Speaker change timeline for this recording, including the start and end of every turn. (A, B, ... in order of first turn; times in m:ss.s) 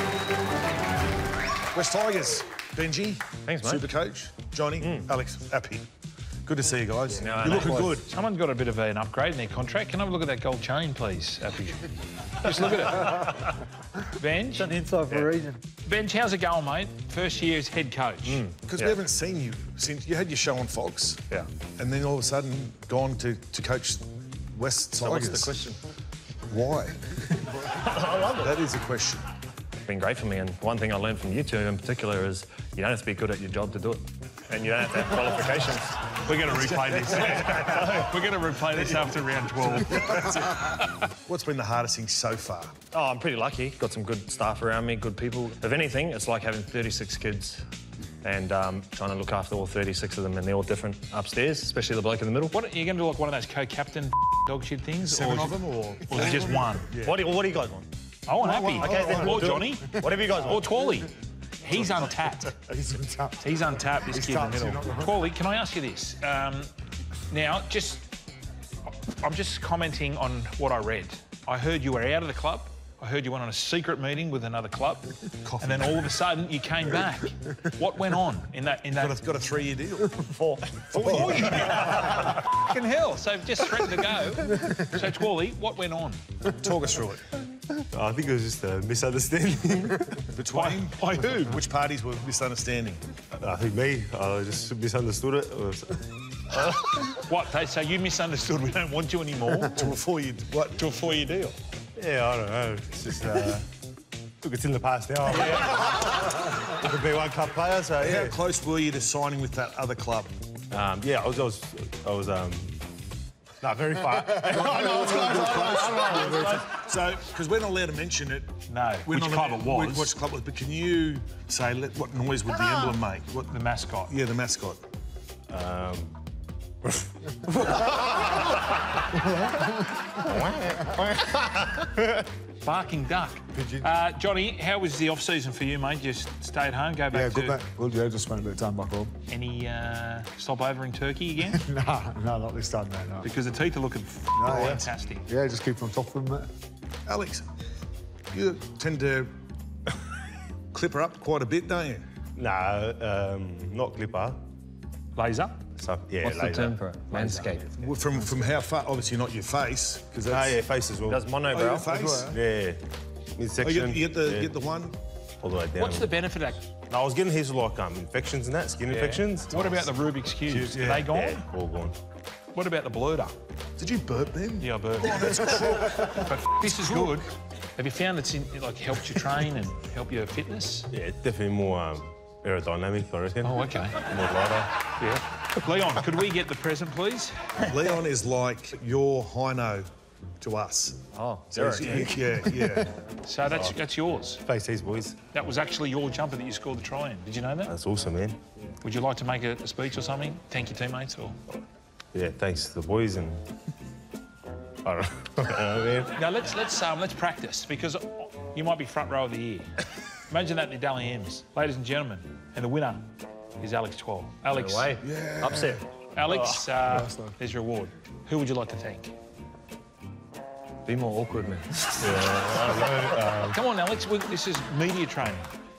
0:01.7-0:05.9 A
0:03.4-0:03.9 B
0:04.8-0:05.1 B
0:06.4-0:08.1 A
0:07.1-0:08.0 B
0:07.5-0:14.7 C
0:13.0-0:13.2 B
0:14.5-0:15.6 B
0:15.8-0:18.4 C
0:18.2-0:19.0 B
0:18.6-0:21.2 A
0:21.8-0:25.5 A
0:25.0-0:25.8 B
0:26.5-0:27.0 A
0:27.7-0:28.6 B
0:28.3-0:29.2 A
0:29.9-0:36.0 B
0:36.2-0:41.0 C
0:36.9-0:38.2 B
0:39.6-0:42.7 A
0:42.9-0:47.6 B
0:48.2-0:52.6 B
0:52.5-0:56.9 C
0:55.0-0:57.2 A
0:57.0-0:57.9 B
0:58.2-1:02.7 C
0:58.5-1:00.0 D
0:58.7-1:00.6 B
1:02.6-1:03.4 D
1:03.4-1:06.7 C
1:04.1-1:05.1 D
1:07.3-1:08.1 C
1:09.0-1:19.2 C
1:15.4-1:16.0 A
1:18.9-1:20.2 A
1:20.2-1:20.9 B
1:20.9-1:26.2 C
1:20.9-1:21.6 A
1:21.6-1:22.2 B
1:26.6-1:27.3 A
1:27.8-1:30.2 E
1:30.3-1:33.0 A
1:30.5-1:31.6 C
1:33.3-1:36.6 E
1:37.1-1:39.8 C
1:39.8-1:40.8 A
1:40.8-1:41.6 C
1:42.0-1:43.7 E
1:44.4-1:48.4 E
1:48.0-1:50.3 A
1:50.7-1:52.8 E
1:53.6-1:56.6 E
1:54.3-1:56.5 D
1:55.1-1:58.5 A
1:58.7-2:00.1 C
1:59.1-2:04.8 A
2:03.5-2:04.2 C
2:05.5-2:06.1 E
2:10.2-2:12.0 E
2:12.6-2:17.6 C
2:17.1-2:19.1 D
2:19.3-2:21.6 C
2:21.5-2:23.3 D
2:23.2-2:25.3 C
2:24.4-2:26.5 D
2:27.1-2:27.5 A
2:28.3-2:29.3 A
2:30.7-2:32.1 A
2:32.4-2:34.4 E
2:35.2-2:35.6 C
2:35.8-2:36.8 E
2:36.2-2:37.9 B
2:37.1-2:37.9 C
2:37.8-2:40.6 A
2:40.3-2:41.2 E
2:41.1-2:41.9 B
2:41.5-2:42.4 A
2:42.0-2:42.8 E
2:43.4-2:44.5 E
2:43.6-2:45.0 A
2:45.4-2:46.1 E
2:45.8-2:46.7 C
2:46.8-2:49.8 E
2:48.9-2:51.5 C
2:50.5-2:51.9 E
2:50.7-2:51.0 A
2:52.5-2:53.3 C
2:53.8-2:57.2 A
2:54.6-3:00.9 C
3:00.9-3:04.7 E
3:03.4-3:04.0 C
3:05.0-3:07.3 C
3:07.7-3:09.8 A
3:10.4-3:11.0 A
3:11.1-3:12.2 B
3:11.5-3:12.9 A
3:13.2-3:14.4 C
3:13.5-3:13.8 E
3:14.4-3:15.2 E
3:15.3-3:17.8 C
3:17.7-3:18.4 E
3:18.8-3:21.4 C
3:22.1-3:23.4 E
3:24.8-3:26.1 E
3:26.2-3:29.7 C
3:30.3-3:33.1 C
3:33.6-3:34.9 C
3:34.5-3:36.6 B
3:35.0-3:35.8 A
3:36.1-3:39.1 C
3:40.8-3:42.2 B
3:42.0-3:43.6 E
3:43.4-3:45.5 C